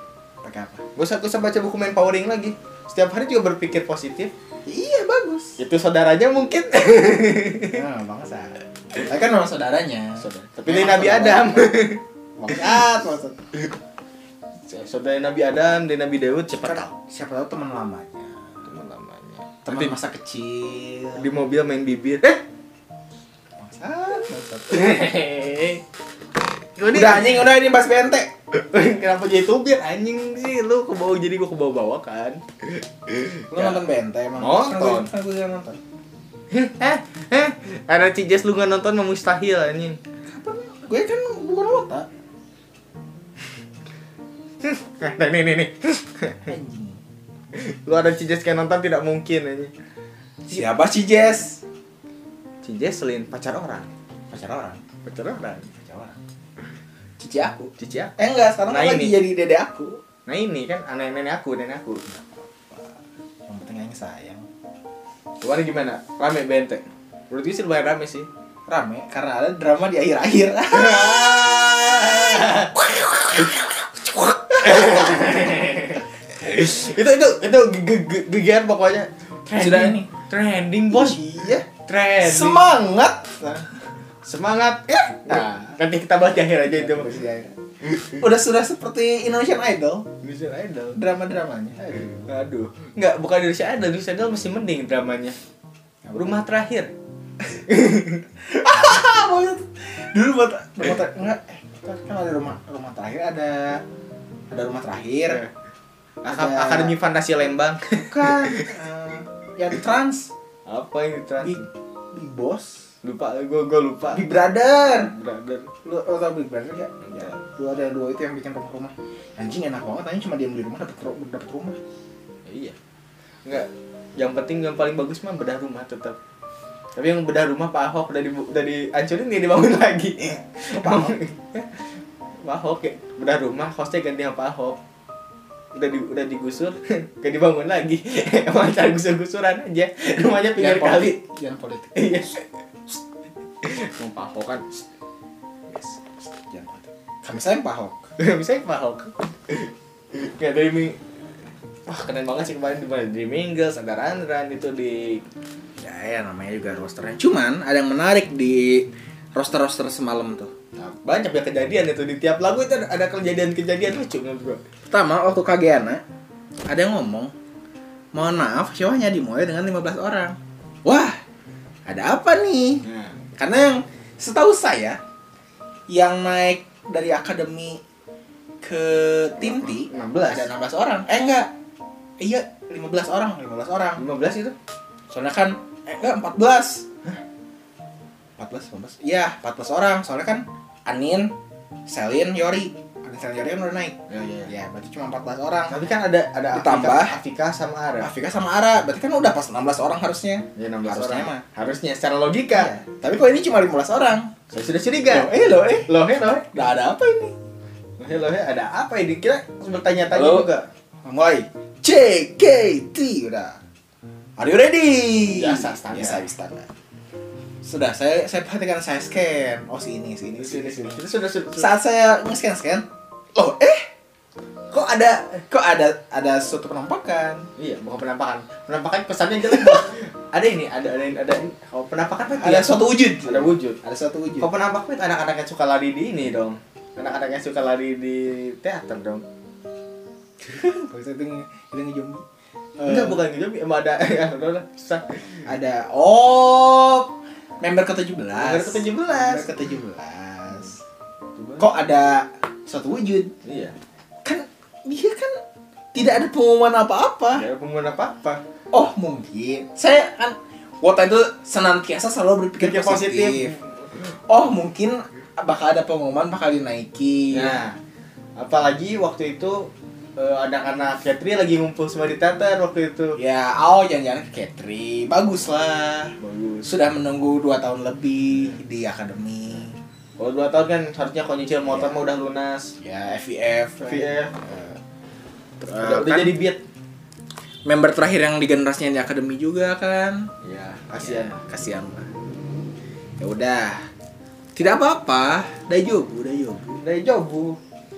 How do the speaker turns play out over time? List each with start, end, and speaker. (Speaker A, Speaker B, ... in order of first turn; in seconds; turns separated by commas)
Speaker A: 0.4-0.8, Speaker B: 0.9-4.3, Speaker A: 4.7-5.6, Speaker B: 5.6-7.8, Speaker A: 7.7-11.8, Speaker B: 10.2-12.0, Speaker A: 12.4-13.4, Speaker B: 14.7-16.9, Speaker A: 16.6-18.4, Speaker B: 18.7-19.9, Speaker A: 19.6-21.3, Speaker B: 21.2-22.4, Speaker A: 23.6-25.0, Speaker B: 24.7-25.8, Speaker B: 26.8-27.5, Speaker A: 26.9-28.3, Speaker B: 28.5-33.8, Speaker A: 33.5-35.8, Speaker B: 34.4-35.1, Speaker B: 36.5-40.0, Speaker A: 40.2-42.1, Speaker B: 44.6-46.5, Speaker A: 46.5-47.0, Speaker B: 47.5-49.7, Speaker A: 50.5-51.6, Speaker B: 52.6-53.9, Speaker A: 54.3-54.8, Speaker B: 55.0-55.7, Speaker A: 55.7-56.2, Speaker A: 57.2-60.0, Speaker B: 57.8-58.1, Speaker B: 58.7-59.2, Speaker B: 60.3-62.0, Speaker A: 62.1-62.9, Speaker A: 63.5-64.5, Speaker B: 65.4-68.3, Speaker A: 68.7-75.2, Speaker B: 70.7-72.8, Speaker B: 74.6-81.2, Speaker A: 79.6-80.1, Speaker A: 80.9-81.7, Speaker B: 81.7-82.6, Speaker A: 82.2-83.8, Speaker B: 84.2-87.3, Speaker A: 86.7-90.1, Speaker B: 90.2-91.0, Speaker A: 90.9-92.3, Speaker B: 92.3-95.4, Speaker B: 96.1-96.9, Speaker B: 97.5-98.2, Speaker A: 98.4-103.8, Speaker A: 104.5-105.4, Speaker B: 106.2-108.6, Speaker A: 106.3-107.0, Speaker A: 107.9-110.3, Speaker B: 110.7-111.7, Speaker A: 111.4-112.8, Speaker B: 113.0-114.2, Speaker A: 114.1-115.1, Speaker B: 114.9-115.7, Speaker A: 115.8-121.8, Speaker B: 117.1-117.3, Speaker B: 122.5-122.8, Speaker B: 123.4-126.2, Speaker B: 127.0-131.8, Speaker A: 130.7-131.2, Speaker B: 132.4-134.8, Speaker B: 135.7-141.2, Speaker A: 140.6-142.0, Speaker B: 141.9-142.4, Speaker B: 143.6-144.9, Speaker A: 146.1-148.0, Speaker B: 148.2-151.0, Speaker B: 151.9-155.2, Speaker A: 155.8-160.5, Speaker B: 160.8-164.6, Speaker A: 164.9-166.0, Speaker A: 166.7-167.3, Speaker A: 168.1-171.2, Speaker A: 171.9-172.9, Speaker B: 172.8-173.2, Speaker A: 173.4-175.0, Speaker A: 175.9-177.8, Speaker A: 178.6-181.5, Speaker B: 179.4-180.5, Speaker A: 182.2-184.0, Speaker B: 184.0-184.6, Speaker A: 185.1-186.9, Speaker A: 188.4-191.3, Speaker A: 191.9-195.8, Speaker B: 194.1-194.5, Speaker B: 195.7-198.1, Speaker A: 196.5-197.2, Speaker A: 198.0-201.4, Speaker B: 200.6-202.7, Speaker A: 202.5-204.3, Speaker B: 204.5-205.3, Speaker A: 205.1-207.3, Speaker B: 205.9-206.5, Speaker B: 208.0-210.7, Speaker A: 210.1-210.5, Speaker A: 211.1-213.6, Speaker A: 214.4-216.7, Speaker B: 215.3-216.3, Speaker A: 217.6-221.0, Speaker B: 220.4-221.8, Speaker A: 221.5-223.9, Speaker B: 224.7-225.4, Speaker A: 225.5-227.5, Speaker B: 227.6-233.8, Speaker A: 232.4-234.5, Speaker B: 234.4-239.2, Speaker A: 240.4-242.2, Speaker A: 242.8-243.2, Speaker B: 242.8-245.4, Speaker A: 245.4-250.8, Speaker B: 248.4-249.5, Speaker B: 251.3-251.7, Speaker A: 251.6-253.3, Speaker B: 253.4-253.8, Speaker A: 254.2-255.4, Speaker A: 255.9-257.4, Speaker B: 257.3-258.4, Speaker A: 258.7-263.6, Speaker B: 262.6-263.7, Speaker A: 264.1-267.6, Speaker B: 267.3-267.8, Speaker B: 268.4-273.2, Speaker A: 273.2-279.8, Speaker B: 276.2-276.7, Speaker B: 280.2-282.7, Speaker A: 282.8-284.8, Speaker B: 283.8-284.4, Speaker A: 285.6-286.4, Speaker B: 285.7-286.6, Speaker A: 287.7-290.3, Speaker B: 290.4-291.4, Speaker A: 290.9-292.1, Speaker A: 293.2-293.9, Speaker A: 294.6-296.8, Speaker B: 296.8-297.6